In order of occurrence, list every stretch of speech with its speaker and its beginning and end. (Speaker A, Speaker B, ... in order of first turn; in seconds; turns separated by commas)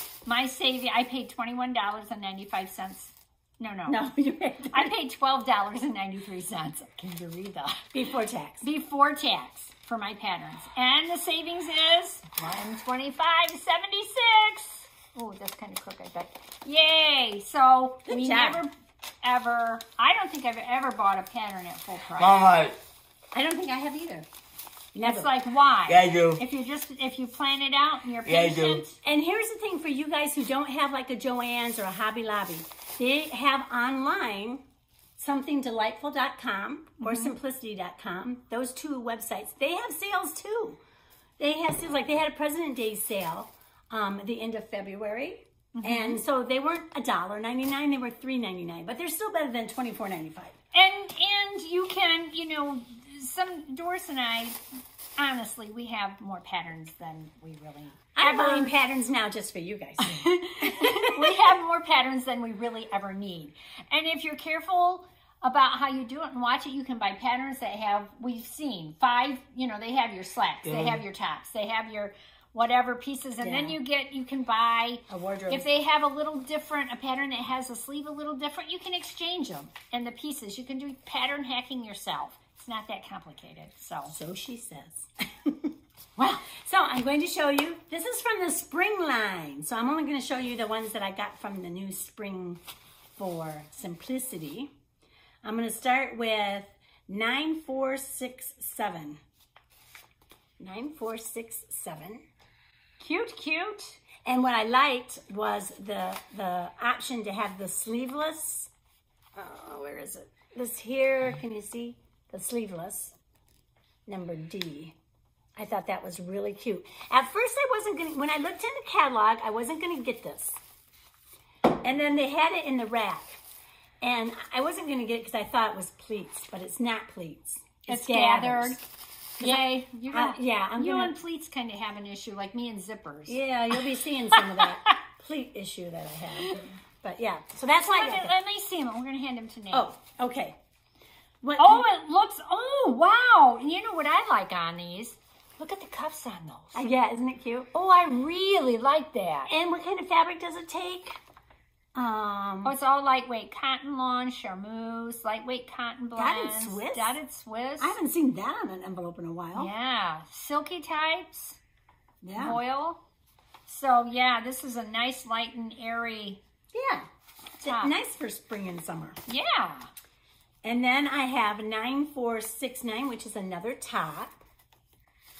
Speaker A: 0.2-4.0, Speaker B: 3.9-4.9, Speaker A: 4.7-7.9, Speaker B: 7.9-8.7, Speaker A: 8.6-22.4, Speaker B: 18.1-18.6, Speaker C: 22.1-22.8, Speaker B: 23.3-24.3, Speaker B: 24.9-25.3, Speaker A: 25.0-29.0, Speaker C: 25.9-26.4, Speaker C: 28.2-28.8, Speaker B: 29.0-34.6, Speaker B: 35.2-40.8, Speaker A: 37.0-37.3, Speaker B: 41.4-50.5, Speaker A: 45.7-46.2, Speaker A: 50.7-54.6, Speaker A: 55.2-58.7, Speaker B: 58.1-61.5, Speaker A: 60.0-84.1, Speaker C: 70.6-71.0, Speaker B: 73.4-73.8, Speaker B: 75.1-75.7, Speaker B: 84.1-85.7, Speaker A: 86.2-86.5, Speaker B: 86.4-92.6, Speaker B: 93.2-94.7, Speaker B: 95.4-99.2, Speaker B: 100.6-102.2, Speaker A: 103.0-104.0, Speaker B: 104.2-108.7, Speaker B: 109.3-113.2, Speaker B: 114.1-115.0, Speaker B: 115.5-120.6, Speaker B: 121.8-123.4, Speaker B: 124.0-128.8, Speaker A: 127.9-128.8, Speaker B: 129.4-131.2, Speaker A: 129.4-134.9, Speaker B: 133.3-138.3, Speaker A: 137.9-139.9, Speaker B: 139.7-140.6, Speaker B: 141.4-141.8, Speaker A: 141.6-146.9, Speaker B: 146.7-147.7, Speaker A: 147.7-149.5, Speaker B: 149.5-151.2, Speaker B: 151.9-152.7, Speaker A: 152.6-158.0, Speaker B: 156.2-157.2, Speaker B: 157.8-159.7, Speaker A: 159.5-161.6, Speaker B: 162.2-162.6, Speaker A: 162.3-163.0, Speaker A: 163.7-166.4, Speaker B: 166.7-167.1, Speaker A: 167.6-167.9, Speaker B: 167.6-169.2, Speaker A: 169.3-169.9, Speaker B: 170.6-174.4